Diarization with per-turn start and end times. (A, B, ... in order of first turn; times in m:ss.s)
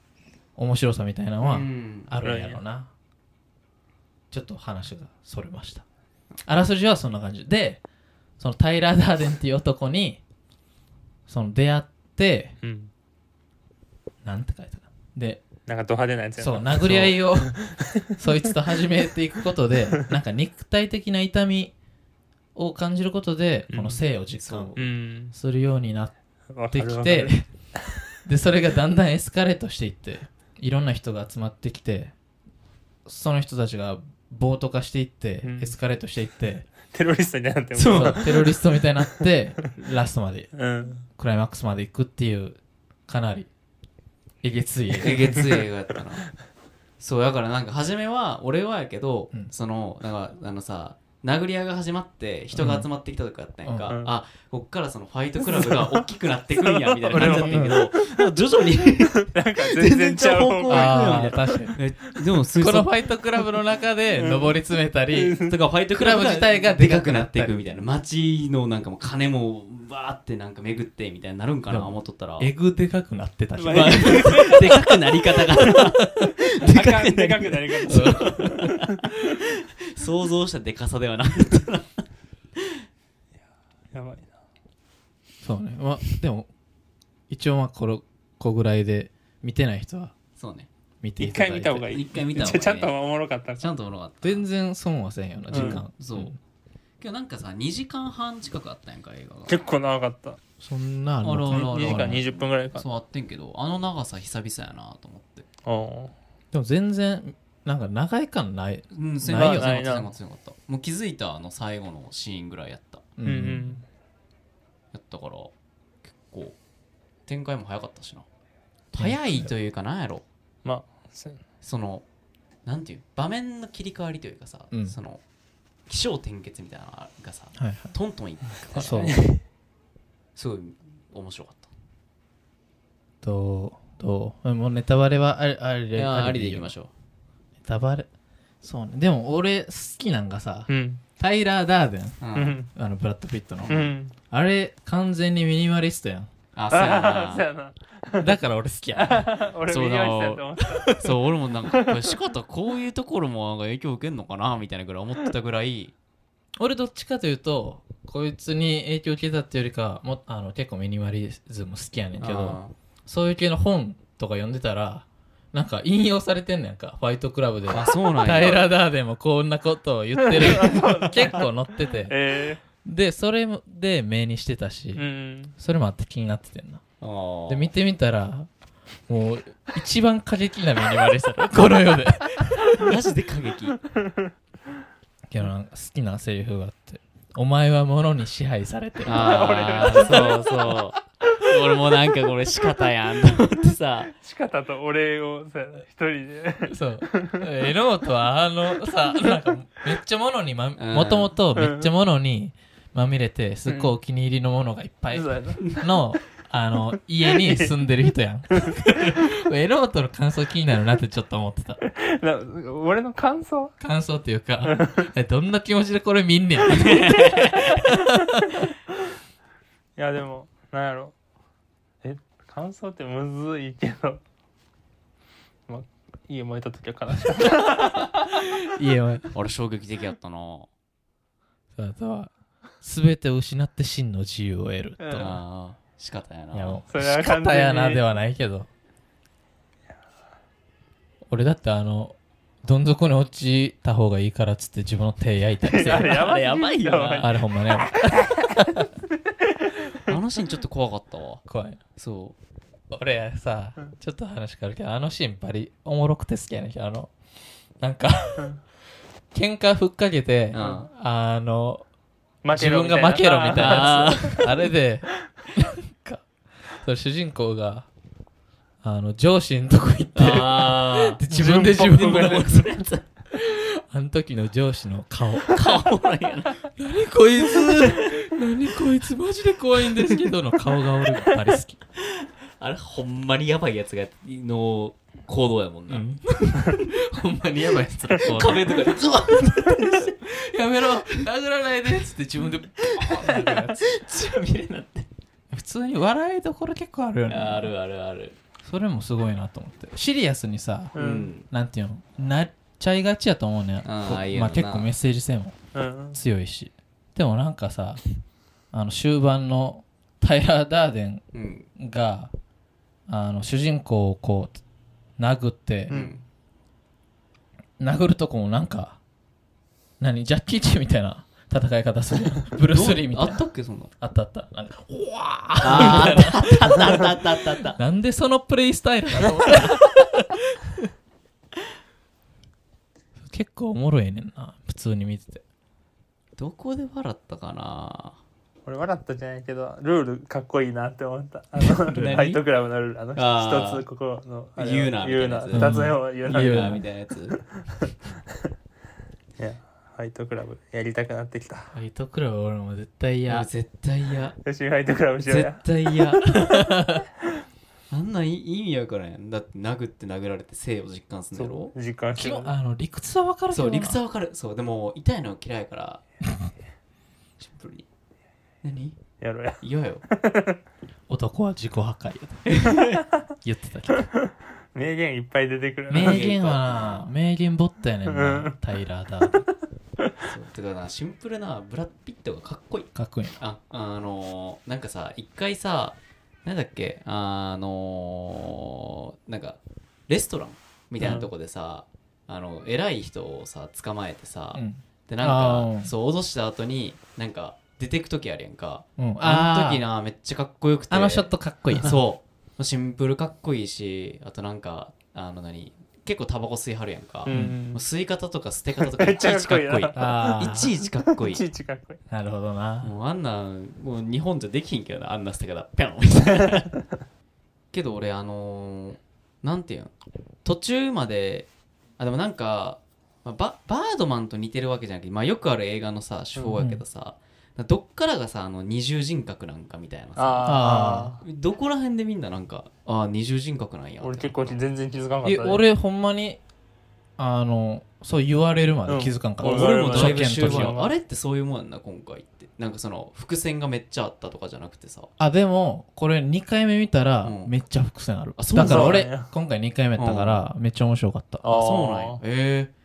0:00.6-0:02.9 A
0:01.4-0:02.1 B
0:02.2-0:02.6 C
0:04.3-0:05.8 A
0:06.4-0:07.8 A
0:08.4-0:10.2 A
0:11.3-0:12.5 A
0:12.6-0:12.9 C
0:14.2-0:15.4 A
0:15.7-0:18.1 C
0:16.4-0:21.7 A
0:22.5-0:24.8 A
0:23.7-0:24.0 C
0:24.4-0:24.8 B
0:24.8-0:25.3 C
0:25.3-0:26.1 A
0:26.5-0:27.9 C
0:26.7-0:27.4 A
0:28.2-0:32.1 A
0:33.0-0:36.7 A
0:35.4-0:35.7 C
0:36.9-0:39.3 C
0:37.7-0:38.3 B
0:37.9-0:40.6 A
0:40.5-0:41.0 C
0:41.1-0:43.5 A
0:44.4-0:45.2 A
0:44.9-0:46.3 B
0:45.3-0:45.6 C
0:47.0-1:02.9 B
0:52.5-0:52.9 A
0:53.6-0:53.9 A
0:55.4-0:56.0 C
0:56.6-0:57.9 C
0:57.1-0:57.8 A
0:59.2-1:01.7 C
1:00.7-1:01.8 A
1:02.6-1:07.5 A
1:04.1-1:04.6 C
1:05.1-1:05.5 C
1:05.4-1:12.5 B
1:11.7-1:14.8 A
1:13.6-1:14.6 C
1:13.7-1:22.0 B
1:15.6-1:16.3 A
1:16.6-1:18.8 C
1:17.9-1:18.7 A
1:23.9-1:24.3 C
1:25.4-1:26.5 A
1:27.3-1:30.1 A
1:30.4-1:30.7 B
1:31.0-1:31.9 A
1:31.2-1:33.7 C
1:31.9-1:32.9 B
1:33.6-1:34.4 B
1:34.2-1:36.4 A
1:35.5-1:35.8 C
1:35.5-1:36.4 B
1:37.0-1:39.6 B
1:39.5-1:40.4 C
1:40.6-1:42.2 A
1:41.2-1:45.4 B
1:41.5-1:42.8 C
1:45.6-1:46.1 C
1:46.5-1:49.8 A
1:48.9-1:53.0 B
1:49.3-1:50.1 C
1:53.2-1:53.8 A
1:53.2-1:53.8 C
1:54.9-1:55.5 B
1:56.1-1:56.6 B
1:57.3-1:58.2 B
1:58.9-2:00.2 B
1:59.0-1:59.5 A
2:00.6-2:01.4 C
2:01.6-2:02.0 B
2:02.6-2:05.2 B
2:04.7-2:05.0 A
2:05.9-2:09.2 B
2:07.6-2:07.9 A
2:08.7-2:09.4 C
2:08.7-2:09.2 A
2:10.4-2:11.7 B
2:13.2-2:16.7 A
2:15.9-2:16.9 B
2:17.6-2:18.1 A
2:18.6-2:22.2 A
2:20.7-2:21.0 C
2:22.2-2:22.6 B
2:22.3-2:22.7 C
2:22.7-2:26.3 A
2:23.7-2:24.1 C
2:26.5-2:27.5 B
2:26.7-2:28.3 C
2:28.2-2:29.3 A
2:28.9-2:31.0 C
2:29.7-2:35.9 B
2:30.8-2:31.0 A
2:36.6-2:52.1 A
2:42.2-2:42.7 B
2:47.7-2:48.6 B
2:50.2-2:51.4 C
2:52.1-2:52.6 C
2:52.8-2:55.0 A
2:55.0-2:55.5 C
2:55.6-2:56.8 A
2:57.0-2:57.7 B
2:57.5-2:58.5 A
2:59.1-3:02.9 A
3:02.8-3:03.8 B
3:05.3-3:10.4 A
3:09.0-3:14.1 B
3:09.1-3:10.8 C
3:14.2-3:17.4 C
3:16.7-3:31.8 A
3:20.8-3:21.4 B
3:21.6-3:21.9 C
3:23.7-3:23.9 C
3:25.1-3:25.7 C
3:27.3-3:27.7 C
3:28.5-3:28.9 C
3:31.8-3:33.8 C
3:33.8-3:38.6 A
3:34.6-3:35.1 C
3:36.8-3:37.5 B
3:40.0-3:41.1 C
3:42.0-3:44.2 C
3:45.7-3:48.2 C
3:48.6-3:49.3 A
3:49.3-3:50.7 B
3:51.8-3:55.4 A
3:55.0-3:55.3 C
3:55.2-3:56.8 B
3:56.5-3:58.7 A
3:56.9-3:58.0 C
4:01.3-4:06.3 A
4:05.6-4:07.4 C
4:05.9-4:07.3 B
4:07.2-4:08.8 A
4:08.0-4:08.6 C
4:09.6-4:10.1 C
4:10.0-4:11.4 B
4:11.5-4:11.8 A
4:12.0-4:12.3 B
4:12.9-4:17.1 A
4:17.8-4:18.6 A
4:19.3-4:21.8 A
4:20.5-4:20.9 B
4:20.6-4:20.8 C
4:22.4-4:24.4 C
4:22.5-4:27.9 A
4:23.5-4:24.5 B
4:28.8-4:32.6 A
4:30.1-4:33.0 B
4:31.3-4:32.4 C
4:33.3-4:35.9 A
4:35.5-4:36.6 B
4:36.8-4:41.8 A
4:42.0-4:46.0 B
4:45.9-4:53.9 A
4:48.2-4:50.1 B
4:53.0-4:55.1 B
4:55.5-4:57.7 A
4:57.3-4:58.4 B
4:58.6-5:00.9 A
5:00.9-5:01.3 C
5:00.9-5:01.5 B
5:01.5-5:05.6 A
5:03.8-5:04.9 B
5:05.7-5:06.2 C
5:06.1-5:08.0 A
5:08.7-5:11.2 A
5:11.3-5:11.7 B
5:11.8-5:12.3 A
5:13.1-5:14.6 A
5:15.2-5:15.9 A
5:15.9-5:16.1 C
5:15.9-5:16.2 B
5:17.8-5:19.0 A
5:20.0-5:23.4 A
5:22.7-5:23.9 B
5:24.0-5:27.1 A
5:25.6-5:27.8 B
5:27.8-5:30.9 A
5:33.2-5:35.4 A
5:36.4-5:38.2 B
5:38.6-5:46.8 C
5:41.7-5:42.4 A
5:41.9-5:42.4 B
5:43.1-5:43.8 B
5:44.6-5:47.4 B
5:45.5-5:46.8 A
5:49.4-5:51.7 C
5:51.7-5:53.5 A
5:53.2-5:54.4 B
5:54.4-5:56.4 C
5:55.2-5:56.6 B
5:56.5-5:57.0 A
5:57.9-6:01.7 B
6:01.3-6:02.5 C
6:02.2-6:04.0 A
6:03.5-6:06.0 B
6:07.4-6:07.8 B
6:08.6-6:09.0 B
6:09.2-6:10.6 C
6:09.6-6:10.0 B
6:11.1-6:12.7 A
6:12.5-6:13.0 B
6:13.4-6:14.1 A
6:14.7-6:16.4 C
6:15.9-6:19.4 A
6:15.9-6:17.1 B
6:18.1-6:18.5 C
6:20.2-6:51.4 B
6:22.9-6:23.4 A
6:31.0-6:31.3 C
6:34.5-6:35.9 A
6:39.0-6:39.8 A
6:40.9-6:42.0 A
6:47.2-6:47.8 C
6:47.3-6:47.6 A
6:48.8-6:50.4 C
6:49.9-6:50.7 A
6:51.0-6:52.0 C
6:52.1-6:52.9 A
6:52.8-6:56.7 B
6:57.7-6:59.9 B
7:00.4-7:10.6 B
7:06.6-7:06.8 A
7:10.2-7:11.2 C
7:10.4-7:11.1 A
7:11.2-7:14.6 B
7:14.0-7:15.6 C
7:15.2-7:16.4 A
7:17.2-7:20.7 A
7:18.9-7:20.9 C
7:19.4-7:25.1 B
7:25.2-7:31.4 A
7:27.2-7:27.5 B
7:28.4-7:29.1 B
7:28.5-7:29.3 C
7:30.0-7:30.4 B
7:31.4-7:32.2 C
7:31.5-7:32.7 B